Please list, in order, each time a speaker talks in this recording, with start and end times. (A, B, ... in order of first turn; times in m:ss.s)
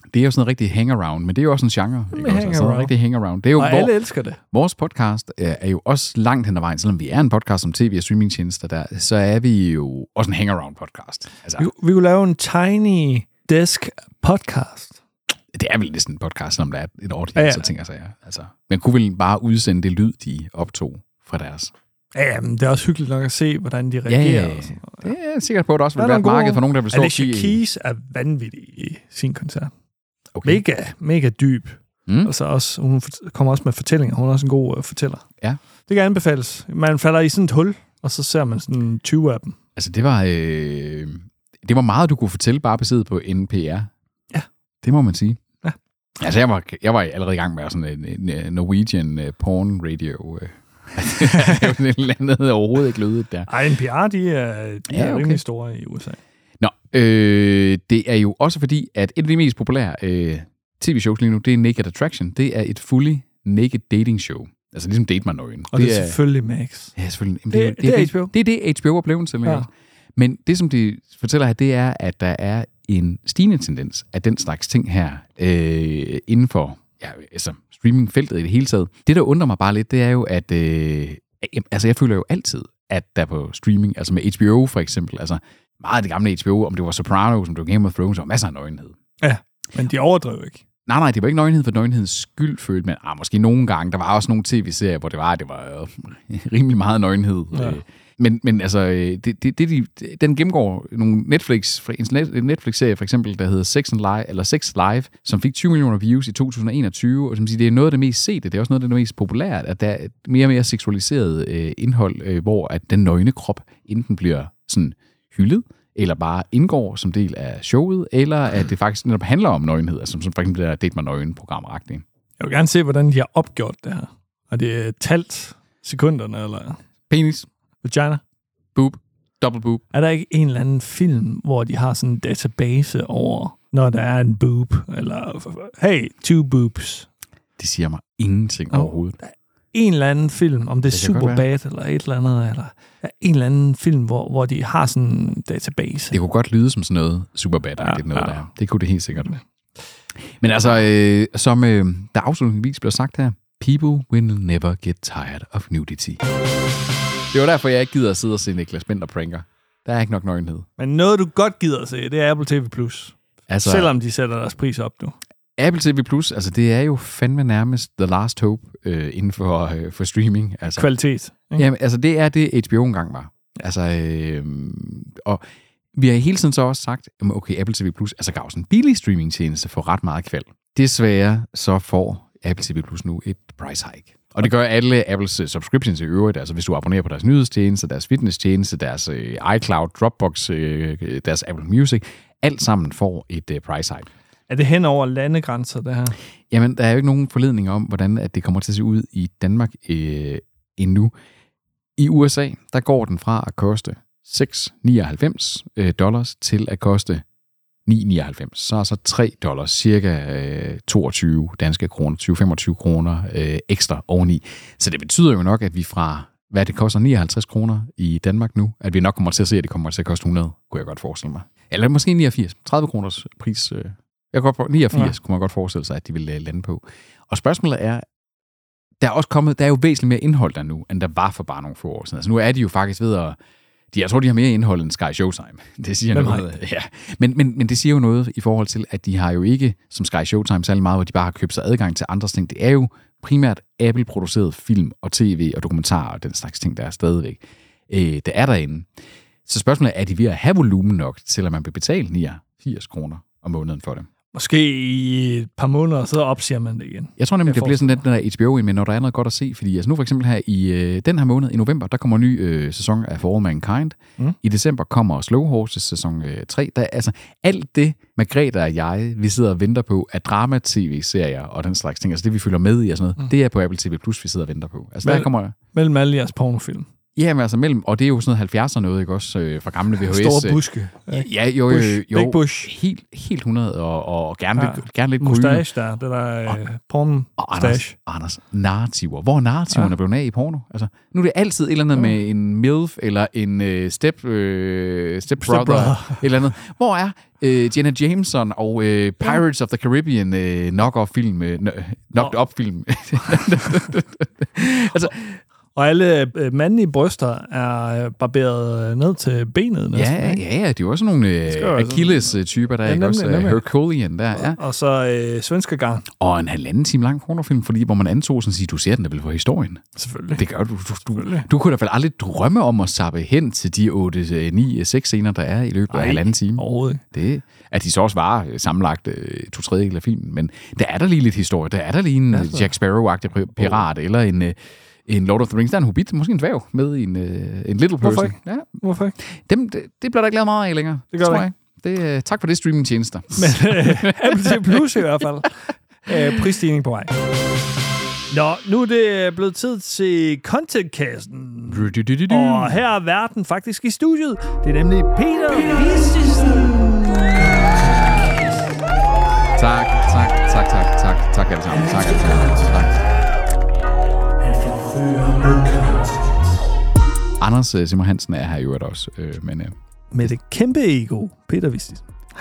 0:00.1-0:03.9 A
0:02.1-0:02.9 B
0:03.6-0:04.4 B
0:04.5-0:11.7 A
0:11.6-0:15.0 B
0:15.5-0:21.7 A
0:17.4-0:17.7 B
0:22.2-0:25.1 B
0:24.1-0:27.6 A
0:26.0-0:29.7 B
0:30.4-0:30.6 A
0:30.4-0:35.2 B
0:32.1-0:32.3 A
0:35.9-0:39.6 B
0:39.8-0:43.9 A
0:44.8-0:45.4 A
0:46.2-0:53.5 A
0:51.2-0:51.6 B
0:53.5-0:56.2 B
0:54.9-0:55.4 A
0:56.6-1:06.2 A
1:05.7-1:06.9 B
1:07.0-1:29.0 A
1:07.5-1:08.3 B
1:29.2-1:30.6 B
1:30.9-2:02.0 A
1:37.5-1:37.8 B
2:02.4-2:06.8 B
2:07.1-2:07.5 A
2:07.8-2:08.2 B
2:08.8-2:09.8 A
2:09.9-2:17.1 B
2:17.6-2:19.2 A
2:18.7-2:26.2 B
2:20.9-2:21.4 A
2:26.1-2:29.3 A
2:27.8-2:28.4 B
2:30.4-2:36.2 A
2:37.3-2:40.7 A
2:40.8-2:45.2 B
2:43.5-2:43.9 A
2:45.6-2:50.9 A
2:50.8-2:51.7 B
2:51.6-2:55.4 A
2:56.0-3:14.1 A
3:14.5-3:16.2 B
3:16.5-3:21.1 A
3:22.0-3:27.2 A
3:27.9-3:48.0 A
3:49.0-3:53.4 A
3:53.9-4:08.9 A
3:56.1-3:56.5 B
4:09.5-4:14.1 A
4:14.3-4:18.0 B
4:17.2-4:35.6 A
4:35.0-4:36.9 B
4:37.2-4:45.7 A
4:40.0-4:42.7 B
4:44.6-4:48.0 B
4:47.4-5:05.4 A
4:55.4-4:56.2 B
5:05.8-5:10.4 B
5:09.9-5:14.6 A
5:11.5-5:13.6 B
5:14.4-5:16.1 B
5:16.1-5:19.8 A
5:20.0-5:20.4 B
5:20.4-5:45.0 A
5:21.1-5:21.5 B
5:25.9-5:27.0 B
5:32.3-5:32.7 B
5:38.0-5:39.2 B
5:41.1-5:41.4 B
5:43.3-5:47.1 B
5:48.3-5:58.5 B
5:51.7-5:52.8 A
5:57.8-5:58.4 A
5:59.6-6:03.1 A
6:04.4-6:06.4 B
6:07.4-6:09.8 A
6:10.1-6:12.0 B